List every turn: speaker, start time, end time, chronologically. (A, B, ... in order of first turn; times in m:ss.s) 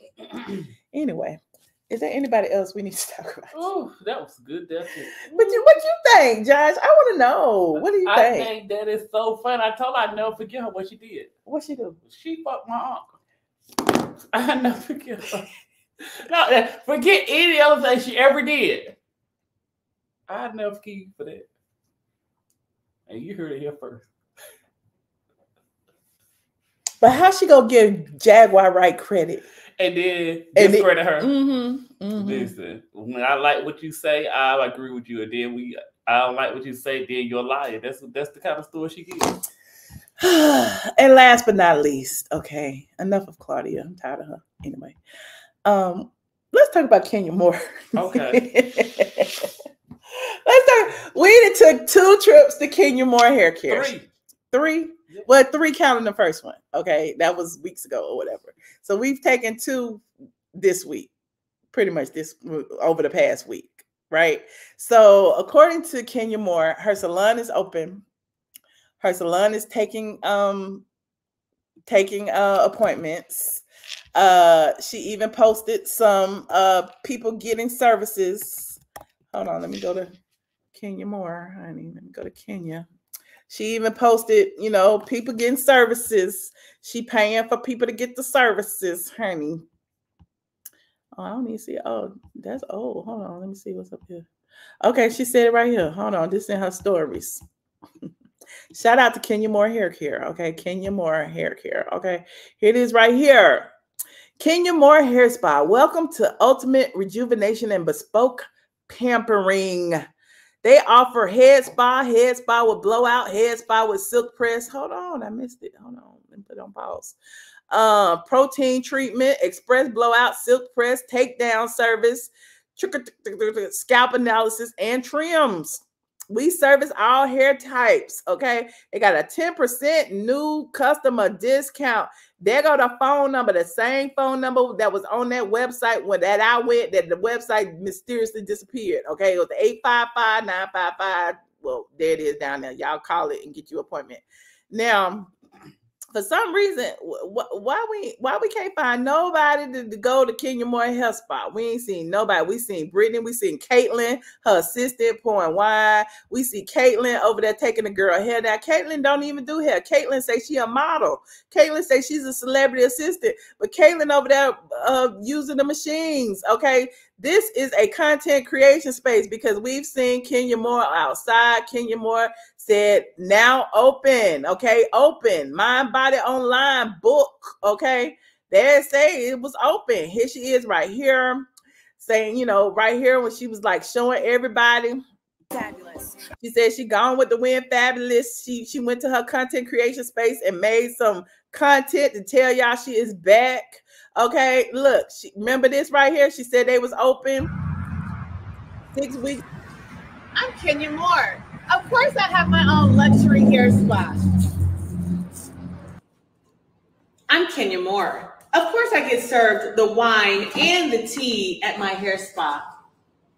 0:00.3-0:00.6 A
0:00.9-0:03.7 B
0:03.5-0:05.7 A
0:05.3-0:08.5 B
0:07.8-0:11.3 A
0:11.5-0:12.0 B
0:12.0-0:13.2 A
0:14.3-0:15.5 A
0:16.0-0:19.0 A
0:20.3-0:21.5 A
0:23.1-0:24.1 A
0:27.0-0:29.4 B
0:29.8-0:31.3 A
0:30.6-0:32.5 B
0:32.2-0:39.4 A
0:40.2-0:45.0 B
0:45.6-0:49.5 B
0:48.0-0:48.4 A
0:50.5-0:53.9 B
0:53.7-0:54.1 A
0:54.5-1:01.1 B
1:01.7-1:08.0 B
1:09.0-1:10.8 B
1:11.9-1:13.6 B
1:14.2-1:18.8 B
1:19.3-1:20.1 B
1:20.7-1:22.9 B
1:23.5-1:29.6 B
1:31.2-1:34.2 B
1:34.8-1:37.4 B
1:38.7-1:43.7 B
1:44.4-1:50.0 B
1:50.6-1:57.2 B
1:57.7-2:25.3 B
2:26.1-3:01.5 B
3:02.0-3:17.5 B
3:18.9-3:19.4 B
3:20.4-3:24.2 C
3:27.3-3:32.7 C